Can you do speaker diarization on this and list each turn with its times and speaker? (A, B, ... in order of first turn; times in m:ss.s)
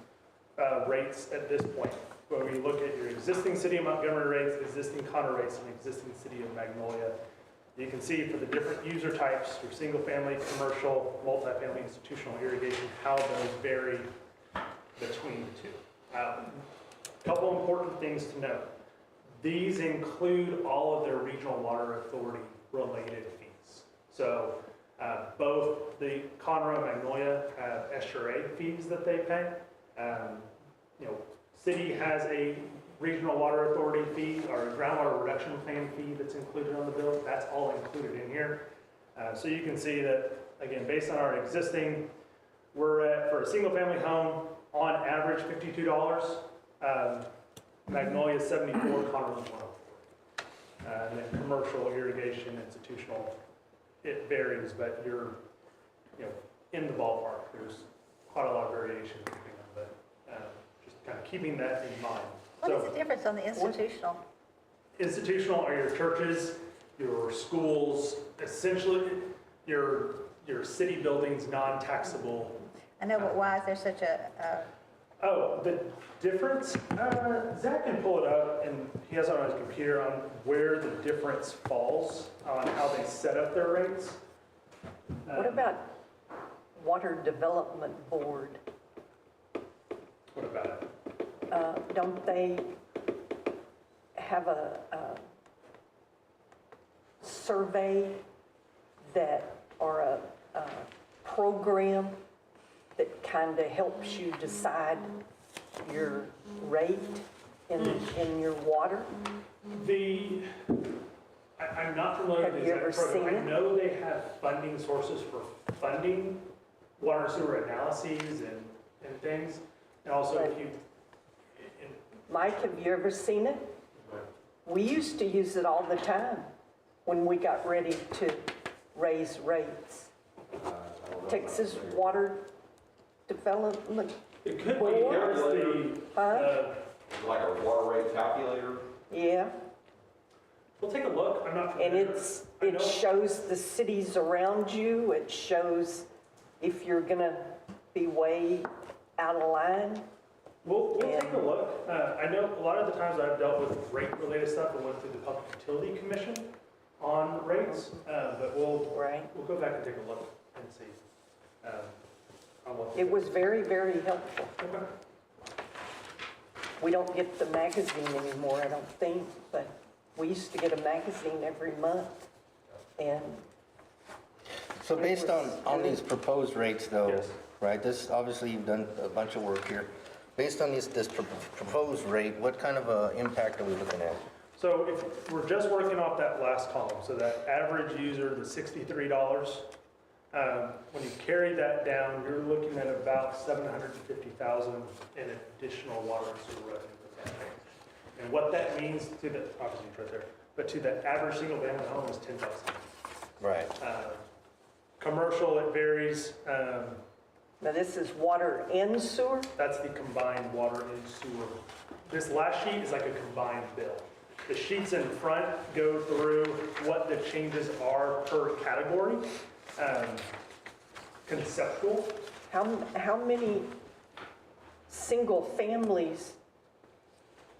0:00.6-0:07.2 A
0:07.7-0:14.1 A
0:15.0-0:16.6 A
0:17.2-0:18.7 A
0:19.4-0:42.1 A
0:42.7-0:47.3 A
0:47.9-0:50.1 A
0:50.8-0:53.4 A
0:54.0-0:55.4 A
0:56.2-1:02.9 A
1:02.6-1:04.2 B
1:05.0-1:13.4 A
1:13.0-1:14.7 B
1:15.2-1:24.2 A
1:25.2-1:25.7 A
1:25.3-1:25.9 C
1:26.8-1:28.6 C
1:30.3-1:30.9 A
1:31.5-1:32.8 C
1:34.2-1:35.2 C
1:37.2-1:38.2 C
1:39.0-1:42.2 C
1:43.0-1:45.2 C
1:45.8-1:49.1 C
1:47.8-1:48.0 A
1:49.7-1:50.9 A
1:51.6-2:00.8 A
1:52.4-1:53.6 C
2:00.3-2:00.6 C
2:01.6-2:02.8 A
2:02.3-2:03.7 C
2:04.6-2:06.5 C
2:07.0-2:10.1 C
2:10.6-2:12.2 D
2:11.2-2:12.5 C
2:13.3-2:15.3 C
2:14.4-2:16.8 A
2:14.8-2:15.9 D
2:16.1-2:16.6 C
2:17.1-2:18.9 D
2:19.1-2:19.5 C
2:20.8-2:23.0 A
2:21.8-2:26.1 C
2:26.6-2:30.1 C
2:30.6-2:41.0 A
2:31.0-2:31.5 C
2:38.9-2:39.3 C
2:41.6-2:42.0 A
2:42.6-2:43.4 A
2:42.9-2:44.6 C
2:44.6-2:44.9 A
2:46.8-2:52.3 C
2:53.0-2:53.4 C
2:54.8-3:04.2 E
2:54.9-2:56.0 C
2:57.0-2:57.4 A
3:04.6-3:09.7 A
3:10.3-3:17.6 A
3:18.2-3:22.9 A
3:23.4-3:23.7 E
3:23.8-3:24.2 A
3:25.0-3:27.0 A
3:27.6-3:29.5 C
3:29.6-3:40.3 A
3:41.2-3:42.2 A
3:42.5-3:43.7 C
3:44.9-3:46.4 C